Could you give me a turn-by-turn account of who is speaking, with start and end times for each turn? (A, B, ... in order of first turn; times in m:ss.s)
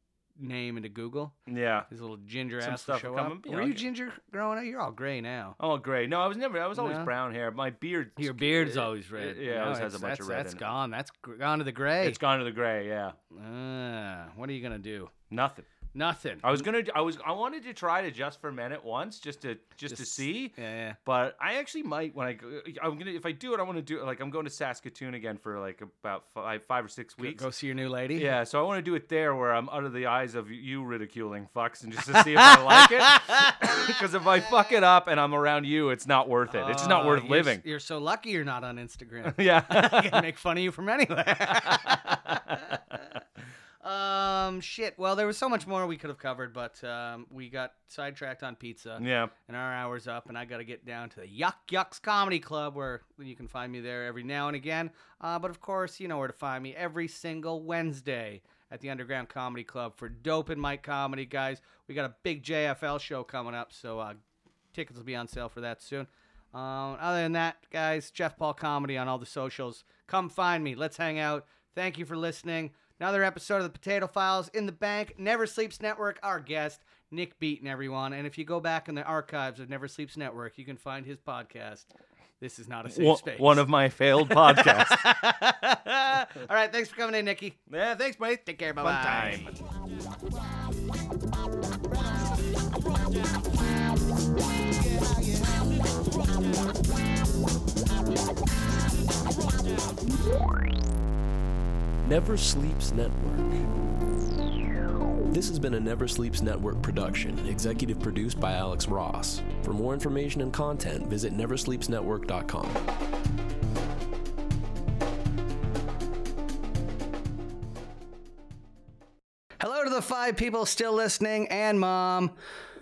0:00.4-0:01.4 A
0:01.5-0:01.9 B
0:01.9-0:05.6 A
0:02.6-0:03.9 B
0:05.6-0:10.6 B
0:06.7-0:07.1 A
0:08.2-0:12.2 A
0:12.0-0:13.2 B
0:13.3-0:15.1 A
0:15.3-0:15.7 B
0:15.9-0:16.6 A
0:16.4-0:27.4 B
0:19.9-0:21.0 A
0:27.2-0:28.3 A
0:28.1-0:37.6 B
0:32.1-0:33.7 A
0:36.5-0:43.2 A
0:39.3-0:40.2 B
0:43.8-1:04.2 A
0:49.0-0:49.3 B
1:04.7-1:21.9 A
1:22.4-1:27.7 A
1:22.9-1:25.2 B
1:27.7-1:29.6 B
1:28.6-1:29.6 A
1:42.0-1:43.7 C
1:45.3-1:52.8 C
1:59.6-2:02.3 A